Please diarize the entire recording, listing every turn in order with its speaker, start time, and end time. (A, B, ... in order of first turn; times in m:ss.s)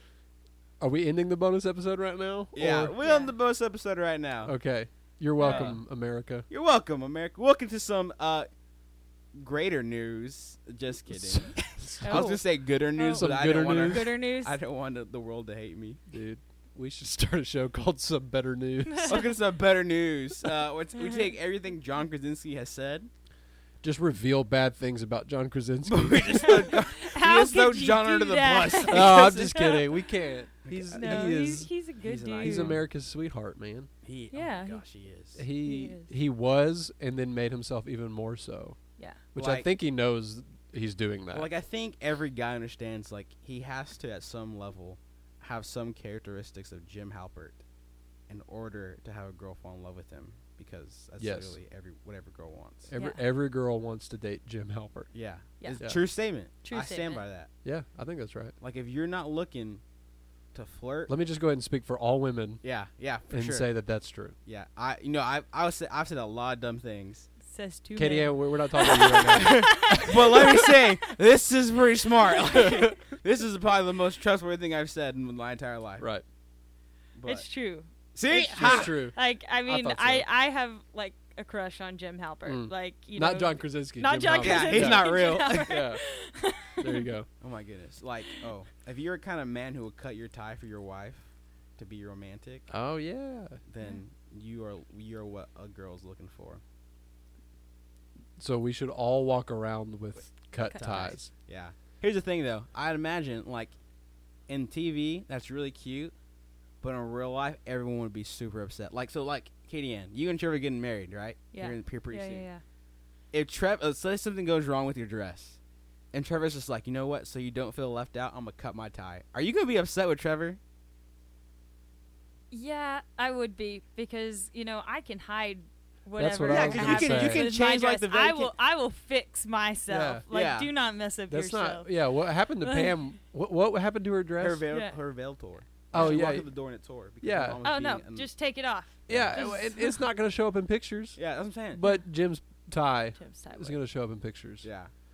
0:00.8-0:02.9 A
0:02.6-0:04.5 B
0:03.0-0:03.3 C
0:04.4-0:06.5 A
0:05.4-0:05.8 C
0:05.4-0:05.8 B
0:06.5-0:08.5 B
0:09.4-0:16.0 B
0:11.1-0:12.3 A
0:12.0-0:12.4 C
0:13.0-0:14.6 C
0:13.1-0:14.1 A
0:16.1-0:19.2 A
0:18.9-0:19.3 C
0:19.1-0:23.1 B
0:21.0-0:21.4 C
0:23.8-0:26.6 A
0:25.8-0:29.9 B
0:26.4-0:29.9 C
0:28.9-0:31.7 A
0:30.6-0:31.4 B
0:30.9-0:32.8 C
0:32.0-0:32.8 B
0:32.4-0:33.9 A
0:34.0-0:35.4 B
0:34.3-0:34.8 C
0:35.4-0:38.8 A
0:35.6-0:36.2 C
0:39.0-0:39.2 C
0:39.3-0:41.5 A
0:39.4-0:39.7 B
0:41.3-0:47.6 B
0:48.3-0:52.9 B
0:51.2-0:51.6 A
0:52.9-0:55.1 A
0:52.9-0:53.2 C
0:55.1-0:57.5 B
0:56.6-0:57.2 C
0:57.6-0:58.5 A
0:58.6-0:59.8 B
1:00.5-1:01.1 B
1:01.1-1:02.6 A
1:02.6-1:03.7 B
1:03.3-1:04.4 A
1:04.4-1:07.3 B
1:07.5-1:10.8 C
1:08.0-1:09.9 A
1:08.8-1:16.0 B
1:12.5-1:12.9 C
1:17.2-1:17.5 B
1:17.2-1:27.1 C
1:18.2-1:19.0 B
1:18.4-1:20.3 A
1:22.5-1:26.0 A
1:24.4-1:25.8 B
1:26.8-1:27.3 A
1:27.4-1:32.7 B
1:32.7-1:33.6 A
1:33.7-1:36.6 B
1:38.4-1:41.3 A
1:40.5-1:41.2 C
1:41.5-1:43.8 B
1:44.5-1:46.1 B
1:46.8-1:52.5 B
1:51.5-1:52.6 C
1:53.3-1:55.6 B
1:56.1-2:00.6 B
2:02.5-2:13.0 C
2:06.2-2:07.5 A
2:06.5-2:08.5 B
2:09.9-2:10.2 A
2:10.3-2:10.7 B
2:11.3-2:14.6 A
2:14.4-2:18.3 B
2:15.9-2:16.4 C
2:15.9-2:16.5 A
2:17.2-2:17.7 A
2:17.6-2:20.1 C
2:19.1-2:19.5 B
2:19.1-2:21.2 A
2:21.2-2:21.8 B
2:21.7-2:24.7 A
2:23.2-2:23.8 C
2:24.6-2:24.9 B